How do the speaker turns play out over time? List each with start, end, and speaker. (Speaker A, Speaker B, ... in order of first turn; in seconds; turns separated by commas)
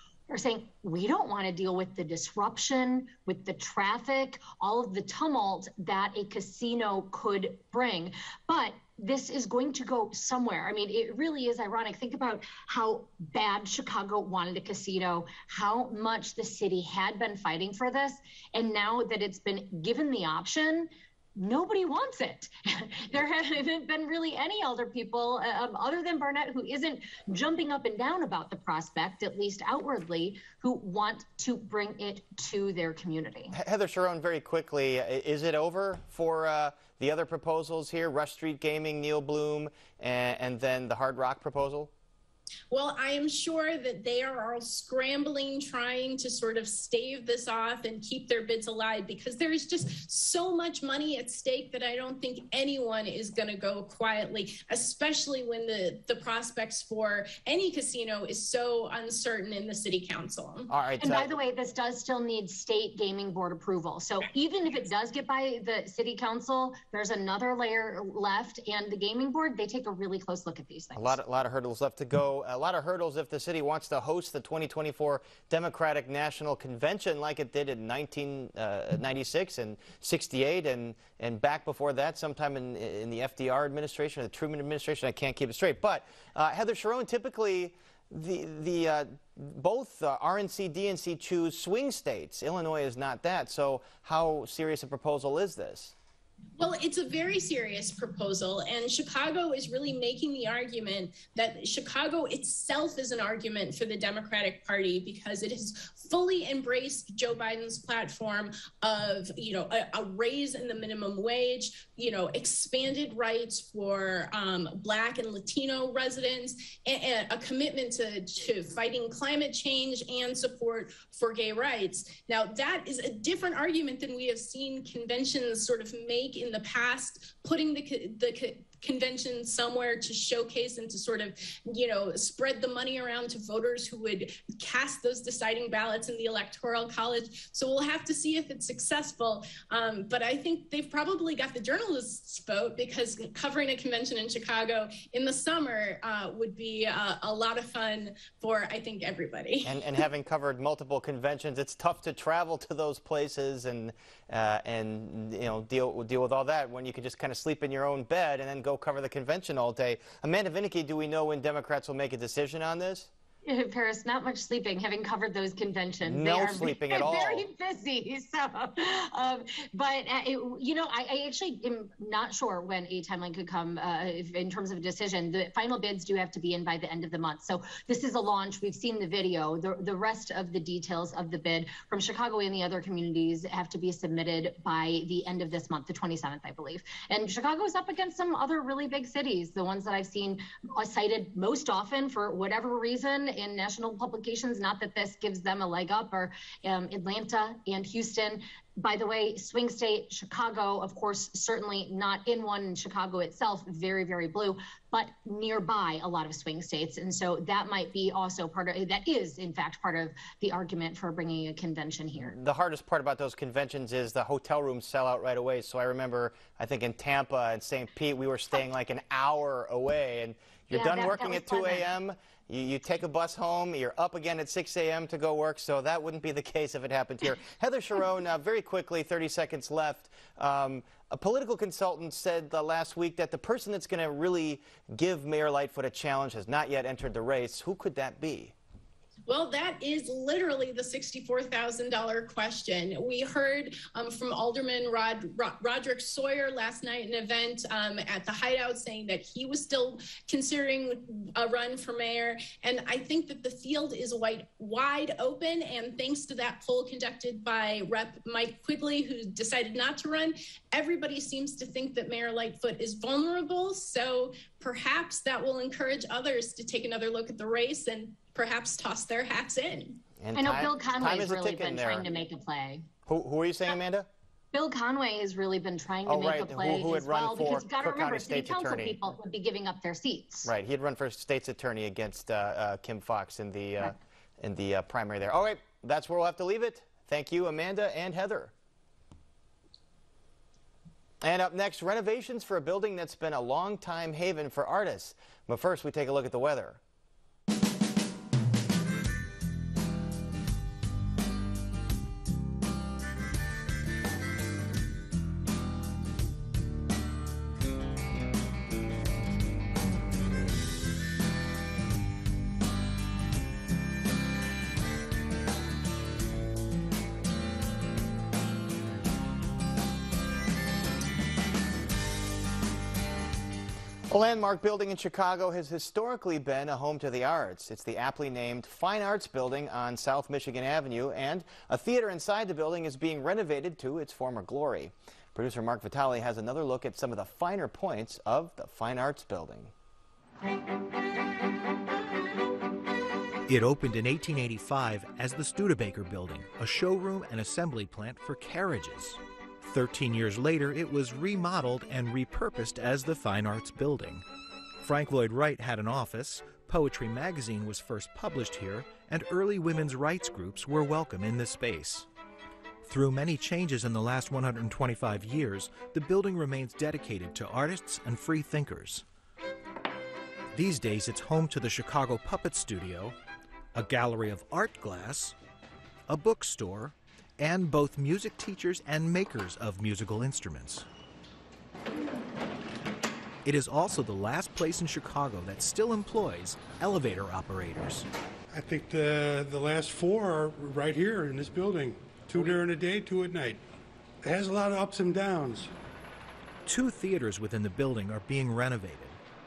Speaker A: 0.3-33.5, Speaker B: 33.5-41.9, Speaker C: 42.7-60.7, Speaker B: 60.7-61.4, Speaker A: 61.0-71.2, Speaker B: 71.0-95.9, Speaker C: 96.6-149.7, Speaker B: 149.6-163.1, Speaker A: 163.4-212.3, Speaker B: 166.0-167.4, Speaker B: 212.2-238.5, Speaker A: 220.7-221.9, Speaker C: 239.3-270.0, Speaker B: 270.2-272.1, Speaker A: 270.3-272.9, Speaker B: 273.1-274.1, Speaker A: 274.5-280.5, Speaker B: 276.0-279.0, Speaker B: 280.4-288.5, Speaker B: 291.2-296.8, Speaker B: 324.1-339.7, Speaker D: 343.5-354.2, Speaker D: 354.8-362.1, Speaker D: 362.8-369.0, Speaker D: 370.5-373.1, Speaker D: 373.7-375.4, Speaker D: 376.1-380.9, Speaker D: 383.4-388.1, Speaker E: 388.5-393.6, Speaker E: 394.2-395.7, Speaker D: 396.6-399.2